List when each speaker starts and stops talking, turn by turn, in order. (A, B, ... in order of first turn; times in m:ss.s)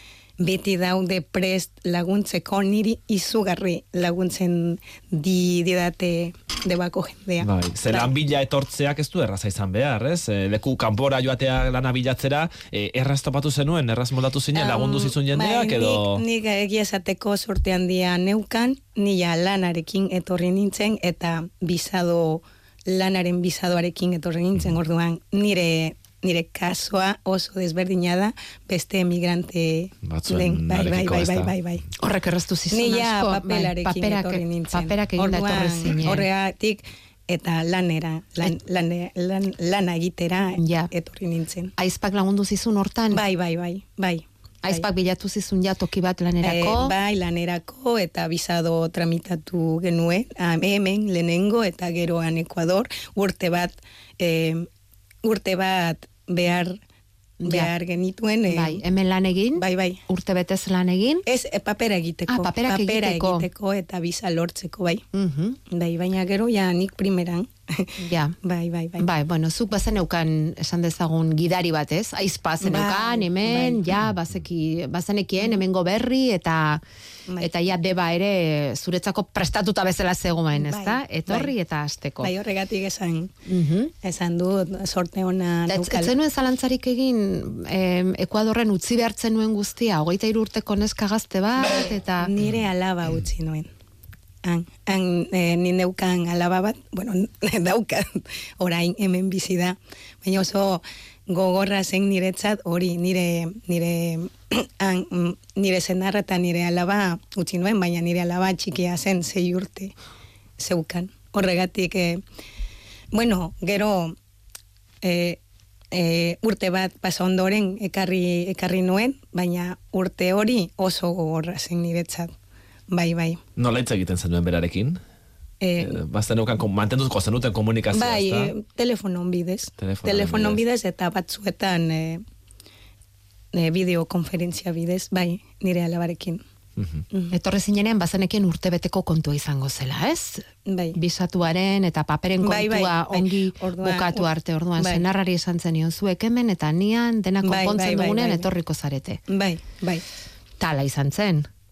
0:00.4-0:08.1 A
0:07.4-0:16.2 B
0:14.5-0:31.9 A
0:30.0-0:31.5 B
0:32.0-0:36.2 C
0:32.7-0:41.7 A
0:40.6-0:40.9 C
0:41.8-0:43.2 C
0:43.1-0:44.8 A
0:44.6-0:46.9 C
0:46.4-0:54.7 A
0:55.2-0:56.8 A
0:57.4-0:57.7 C
0:57.4-0:58.8 A
0:58.5-1:01.2 C
0:59.6-1:00.0 A
1:01.2-1:05.0 A
1:02.3-1:03.5 C
1:05.1-1:05.6 C
1:05.7-1:09.0 A
1:08.0-1:08.3 C
1:09.0-1:16.8 C
1:12.6-1:13.9 A
1:17.4-1:22.3 C
1:20.5-1:21.5 A
1:22.2-1:23.3 A
1:23.4-1:23.9 C
1:24.0-1:26.2 A
1:25.7-1:32.3 C
1:31.7-1:33.7 A
1:34.4-1:49.9 A
1:50.6-1:52.2 A
1:53.1-1:54.2 A
1:55.0-1:55.4 A
1:55.9-2:02.3 A
2:02.9-2:03.4 A
2:03.6-2:05.0 B
2:05.6-2:06.0 A
2:05.8-2:08.5 B
2:07.9-2:12.2 A
2:09.8-2:10.6 B
2:13.5-2:16.4 A
2:16.8-2:17.0 B
2:17.3-2:20.4 C
2:20.6-2:21.0 A
2:20.9-2:29.2 C
2:22.4-2:25.0 A
2:27.4-2:28.5 A
2:29.3-2:30.0 A
2:30.6-2:31.5 C